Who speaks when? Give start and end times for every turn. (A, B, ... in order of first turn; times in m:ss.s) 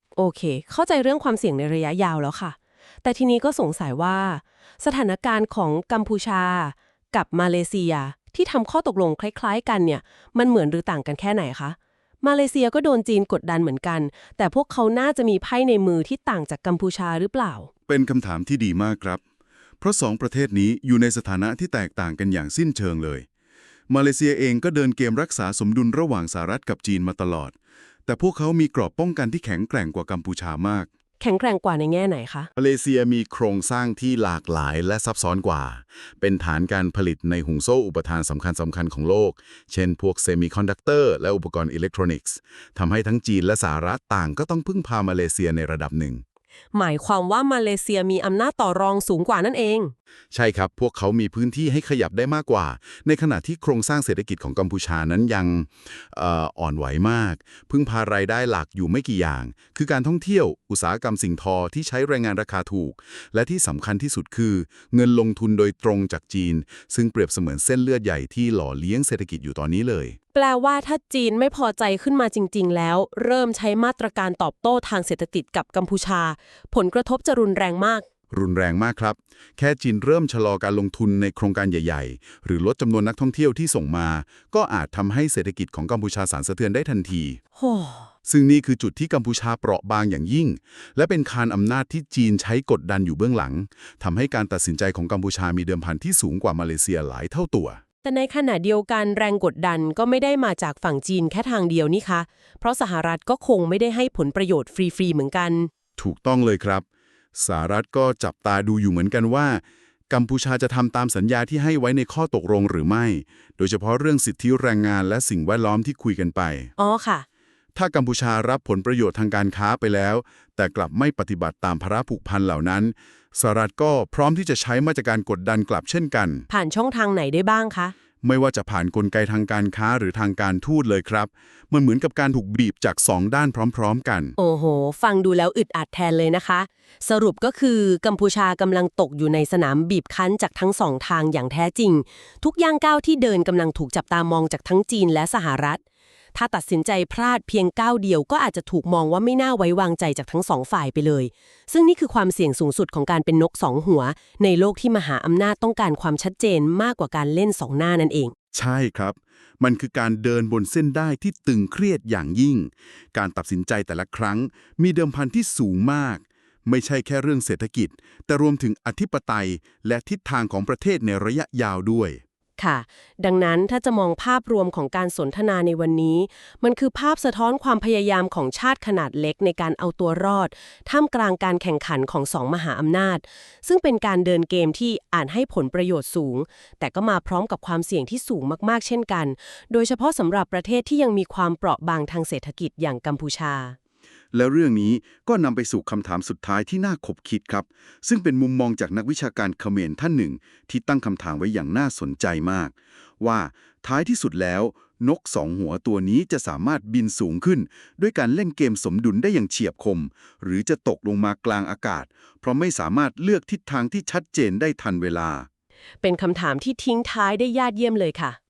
0:00.2-0:17.7 A
0:17.9-0:19.2 B
0:19.8-0:23.3 B
0:23.9-0:27.6 B
0:28.1-0:30.9 B
0:31.2-0:32.5 A
0:32.6-0:46.2 B
0:46.7-0:49.9 A
0:50.3-1:10.2 B
1:10.3-1:18.1 A
1:18.3-1:27.4 B
1:27.6-1:28.1 A
1:28.3-1:37.8 B
1:38.0-1:45.7 A
1:46.0-1:46.8 B
1:47.4-1:56.7 B
1:56.8-1:57.2 A
1:57.8-2:06.5 B
2:06.5-2:08.0 A
2:08.2-2:14.4 B
2:14.4-2:25.8 A
2:26.4-2:38.3 A
2:38.5-2:52.2 B
2:52.6-3:13.8 A
3:14.3-3:35.5 B
3:36.0-3:38.4 A